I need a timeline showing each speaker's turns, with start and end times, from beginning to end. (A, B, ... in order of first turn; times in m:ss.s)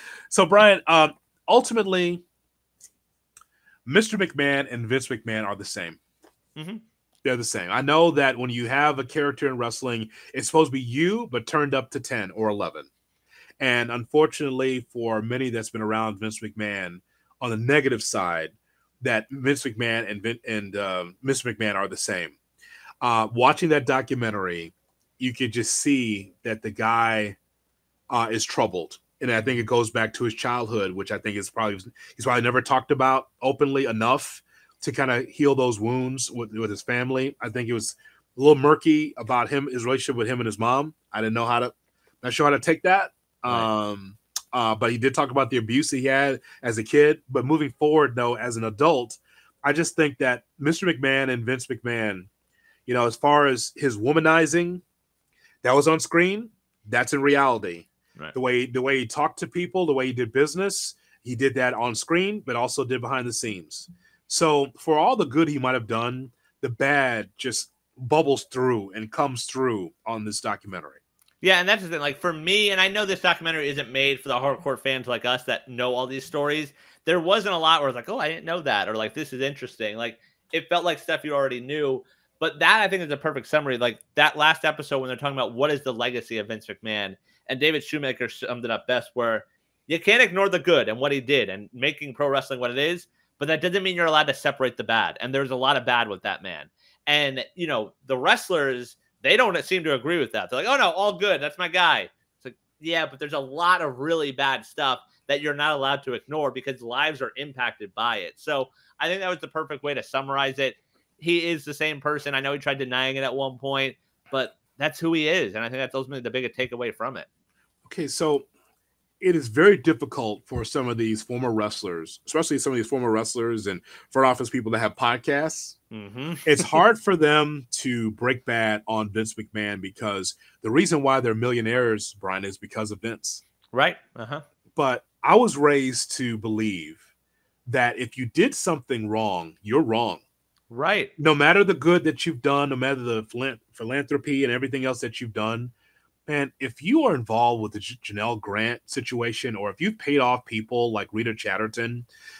0:00.3-0:02.2 A
0:03.9-0:06.0 A
0:06.6-0:06.8 B
0:07.2-0:12.9 A
0:13.6-0:22.4 A
0:23.0-0:27.4 A
0:28.1-0:52.3 A
0:52.9-0:54.8 A
0:55.6-1:11.0 A
1:11.4-1:57.3 B
1:57.8-1:58.5 A
1:59.2-2:05.8 A
2:05.9-2:06.8 B
2:06.5-2:13.4 A
2:13.7-2:14.4 B
2:14.8-2:17.0 A
2:17.7-2:20.2 A
2:20.7-2:21.1 B
2:21.2-2:25.7 A
2:26.3-2:32.1 A